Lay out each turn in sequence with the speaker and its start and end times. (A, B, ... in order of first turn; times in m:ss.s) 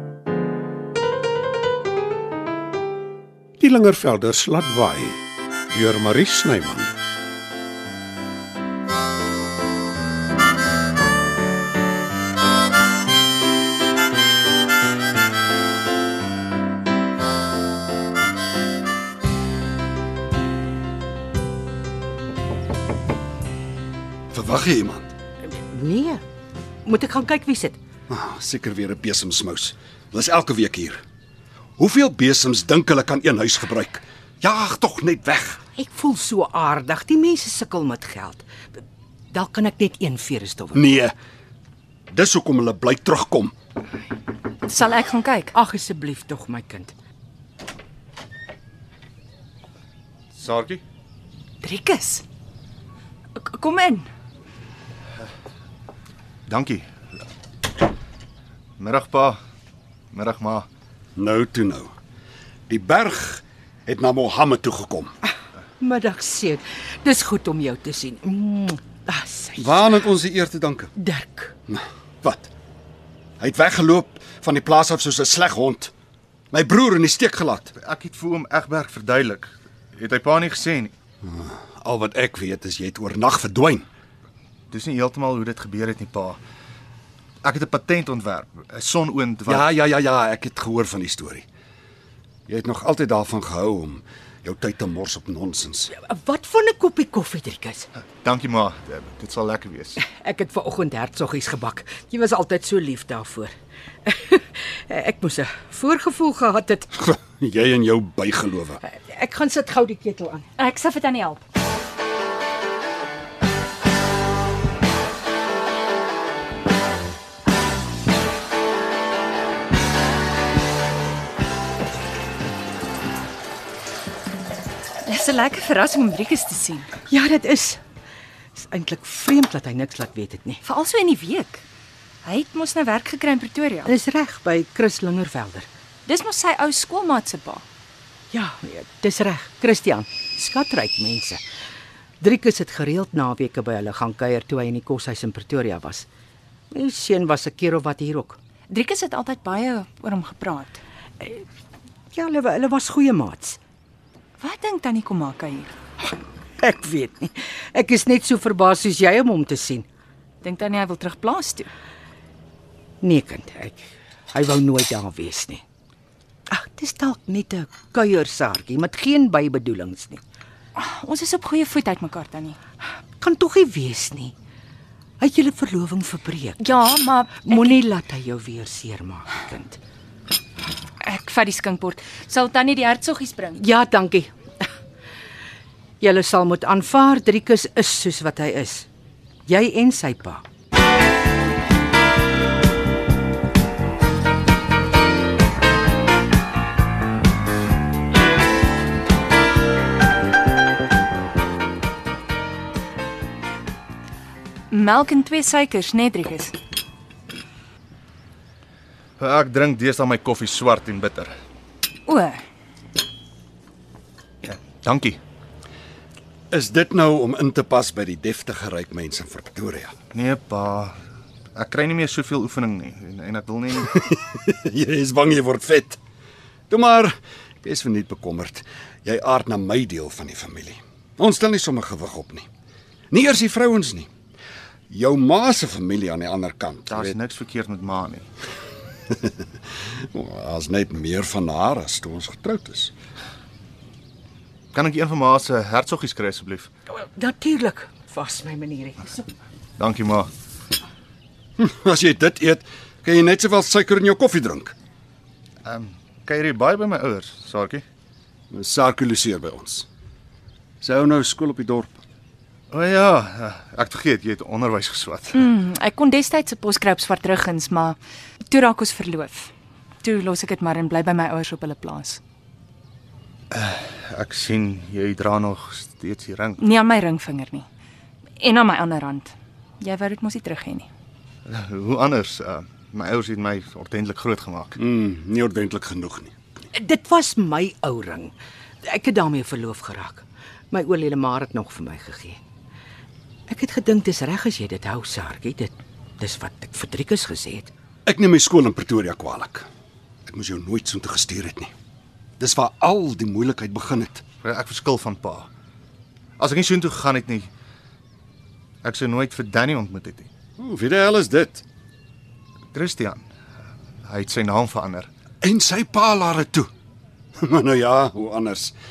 0:03.6-0:06.9 A
0:24.3-0:25.1 B
0:25.4-0:26.2 C
0:26.8-0:27.8 C
0:28.1-0:31.0 B
0:31.8-0:35.6 B
0:35.7-0:38.5 C
0:39.3-0:40.9 C
0:40.7-0:41.1 B
0:42.1-0:43.5 B
0:44.6-0:45.5 D
0:45.5-0:46.9 C
0:50.3-0:50.8 E
0:51.6-0:52.2 D
0:53.3-0:54.1 D
0:56.5-0:56.8 E
0:58.8-0:59.4 E
1:00.1-1:00.7 E
1:01.2-1:01.9 B
1:02.7-1:05.1 B
1:05.8-1:10.0 C
1:09.6-1:10.9 B
1:11.0-1:11.5 C
1:11.7-1:12.5 B
1:13.4-1:15.9 B
1:16.5-1:17.7 B
1:17.8-1:20.9 E
1:21.2-1:23.9 B
1:24.7-1:26.4 E
1:27.4-1:29.7 E
1:29.5-1:31.4 B
1:32.5-1:35.9 B
1:36.0-1:37.9 C
1:38.2-1:40.0 E
1:40.0-1:46.9 C
1:47.0-1:48.8 B
1:48.8-1:50.5 C
1:50.6-1:51.4 D
2:05.0-2:07.0 D
2:07.1-2:07.8 C
2:08.6-2:10.6 C
2:10.6-2:11.6 D
2:12.2-2:13.9 D
2:13.8-2:15.7 C
2:16.0-2:17.6 D
2:18.3-2:21.4 C
2:22.2-2:26.1 C
2:26.7-2:28.4 C
2:28.7-2:30.8 D
2:32.1-2:33.6 C
2:34.4-2:35.7 D
2:36.6-2:39.8 C
2:40.4-2:41.7 D
2:43.0-2:45.6 C
2:46.5-2:50.2 C
2:50.7-2:52.6 D
2:53.2-2:54.3 C
2:55.2-2:56.6 C
2:56.6-2:57.8 D
2:57.4-2:59.8 C
3:01.0-3:03.6 D
3:03.6-3:04.7 C
3:06.0-3:08.9 C
3:09.4-3:10.4 C
3:24.7-3:26.6 D
3:29.2-3:31.3 E
3:32.0-3:32.4 D
3:34.4-3:35.2 E
3:36.5-3:39.9 B
3:40.1-3:41.0 E
3:41.6-3:43.9 E
3:43.9-3:46.0 B
3:46.7-3:52.5 B
3:53.1-3:54.1 B
3:54.9-3:57.2 B
3:56.9-3:58.3 E
4:00.1-4:02.9 B
4:04.7-4:06.7 E
4:07.0-4:09.2 C
4:09.8-4:10.3 E
4:11.6-4:14.7 B
4:15.6-4:17.8 E
4:18.5-4:19.8 B
4:20.8-4:22.0 B
4:22.7-4:25.4 E
4:25.3-4:29.5 D
4:30.0-4:32.2 D
4:33.5-4:36.6 E
4:36.6-4:37.6 D
4:38.4-4:40.9 D
4:41.4-4:44.8 E
4:44.8-4:46.3 B
4:46.7-4:52.4 C
4:53.5-4:57.7 C
4:58.0-4:59.7 B
5:00.2-5:01.7 B
5:02.4-5:04.2 B
5:04.4-5:05.5 E
5:06.4-5:07.5 E
5:08.8-5:10.3 E
5:10.6-5:11.6 B
5:12.7-5:13.2 E
5:14.0-5:15.1 E
5:15.4-5:16.7 B
5:17.4-5:18.7 B